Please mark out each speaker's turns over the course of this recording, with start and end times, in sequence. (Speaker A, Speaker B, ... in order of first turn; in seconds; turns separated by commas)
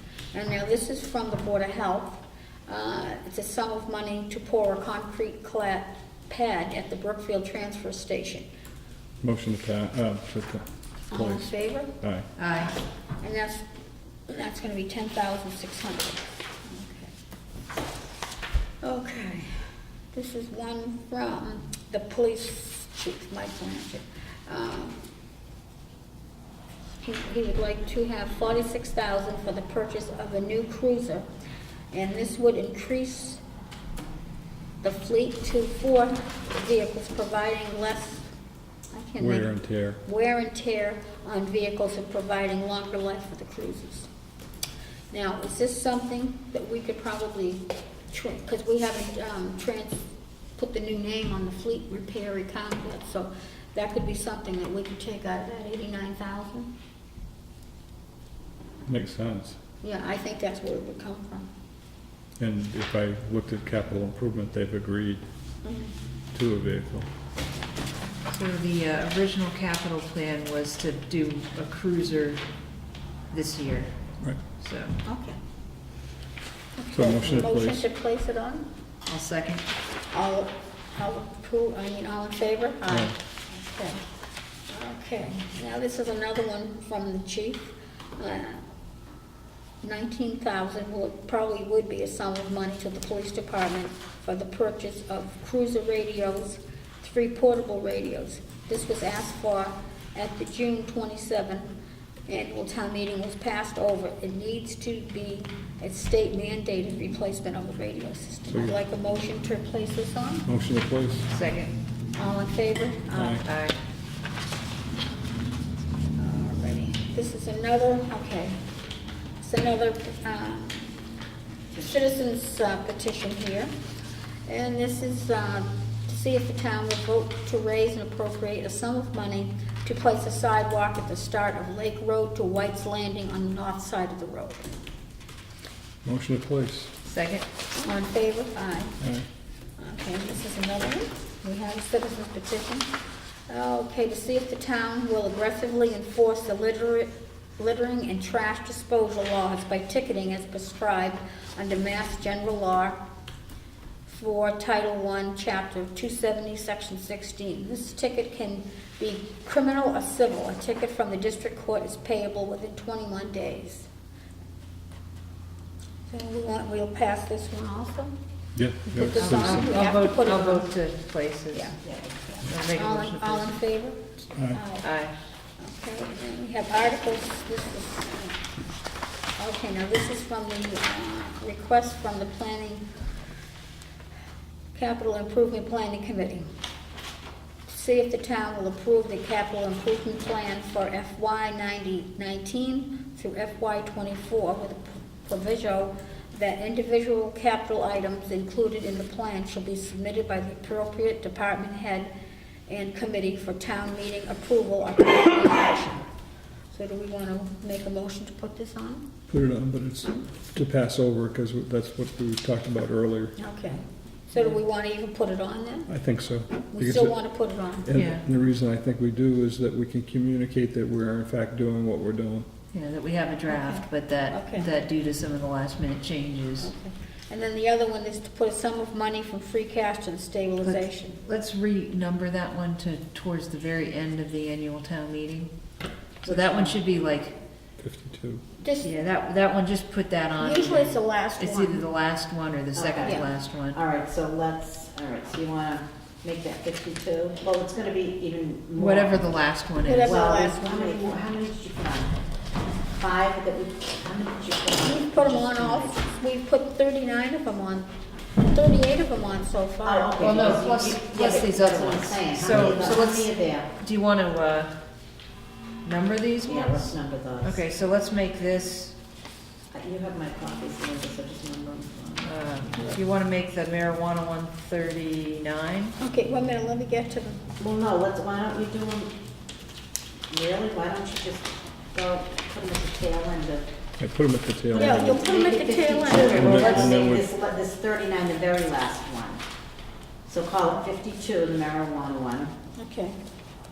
Speaker A: 0.3-8.4, Speaker B: 9.2-12.3, Speaker A: 11.1-13.6, Speaker C: 12.3-12.7, Speaker A: 14.3-17.1, Speaker A: 18.8-19.5, Speaker A: 20.1-25.1, Speaker A: 27.0-31.3, Speaker A: 31.9-33.4, Speaker A: 34.8-38.3, Speaker A: 38.9-44.1, Speaker B: 39.2-40.0, Speaker A: 45.1-50.0, Speaker A: 50.5-56.7, Speaker B: 58.8-59.6, Speaker A: 59.8-61.5, Speaker B: 62.4-65.2, Speaker A: 65.6-65.9, Speaker B: 66.3-67.1, Speaker C: 68.3-72.4, Speaker C: 73.3-74.9, Speaker A: 75.0-75.4, Speaker A: 76.8-78.7, Speaker B: 76.9-77.8, Speaker C: 79.0-79.6, Speaker A: 80.1-84.0, Speaker B: 82.9-83.1, Speaker A: 84.7-88.6, Speaker A: 89.8-101.7, Speaker A: 102.3-110.5, Speaker B: 108.5-108.8, Speaker B: 110.5-111.3, Speaker C: 111.3-111.7, Speaker A: 112.2-113.4, Speaker B: 113.1-113.5, Speaker C: 113.4-113.7, Speaker A: 116.2-118.6, Speaker A: 119.4-120.9, Speaker A: 121.8-123.7, Speaker A: 124.5-134.7, Speaker B: 136.0-136.9, Speaker C: 137.0-137.4, Speaker A: 137.8-139.0, Speaker B: 139.0-139.2, Speaker A: 139.8-142.9, Speaker A: 143.5-153.0, Speaker A: 154.1-163.9, Speaker A: 166.1-168.1, Speaker B: 168.5-169.7, Speaker A: 168.9-170.7, Speaker C: 169.1-171.8, Speaker A: 171.5-171.8, Speaker D: 171.8-172.1, Speaker A: 172.4-174.9, Speaker C: 172.4-173.5, Speaker B: 174.3-174.6, Speaker C: 174.8-175.1, Speaker A: 175.6-178.4, Speaker A: 179.4-182.8, Speaker A: 184.7-186.5, Speaker A: 187.7-202.1, Speaker A: 202.7-206.1, Speaker A: 206.7-209.1, Speaker B: 209.3-213.3, Speaker A: 213.4-215.9, Speaker B: 215.9-217.2, Speaker A: 216.7-217.9, Speaker B: 217.8-222.5, Speaker C: 217.9-218.2, Speaker C: 222.7-226.7, Speaker A: 223.5-224.7, Speaker A: 226.6-231.2, Speaker C: 230.6-235.5, Speaker C: 236.2-237.3, Speaker D: 236.2-236.8, Speaker B: 237.8-238.4, Speaker A: 238.6-238.9, Speaker C: 238.8-243.8, Speaker A: 240.4-241.8, Speaker D: 242.7-249.4, Speaker C: 248.8-250.2, Speaker A: 249.8-251.2, Speaker D: 250.0-252.1, Speaker D: 252.9-256.0, Speaker A: 254.8-257.9, Speaker A: 258.4-260.4, Speaker D: 259.8-263.7, Speaker C: 260.2-264.7, Speaker C: 265.8-268.9, Speaker D: 266.4-267.6, Speaker D: 269.7-272.3, Speaker C: 272.2-275.9, Speaker A: 276.0-277.4, Speaker D: 277.6-279.1, Speaker D: 280.3-283.6, Speaker B: 284.0-285.2, Speaker D: 284.7-289.4, Speaker A: 284.7-287.0, Speaker B: 286.3-287.3, Speaker D: 290.3-292.5, Speaker A: 292.8-293.2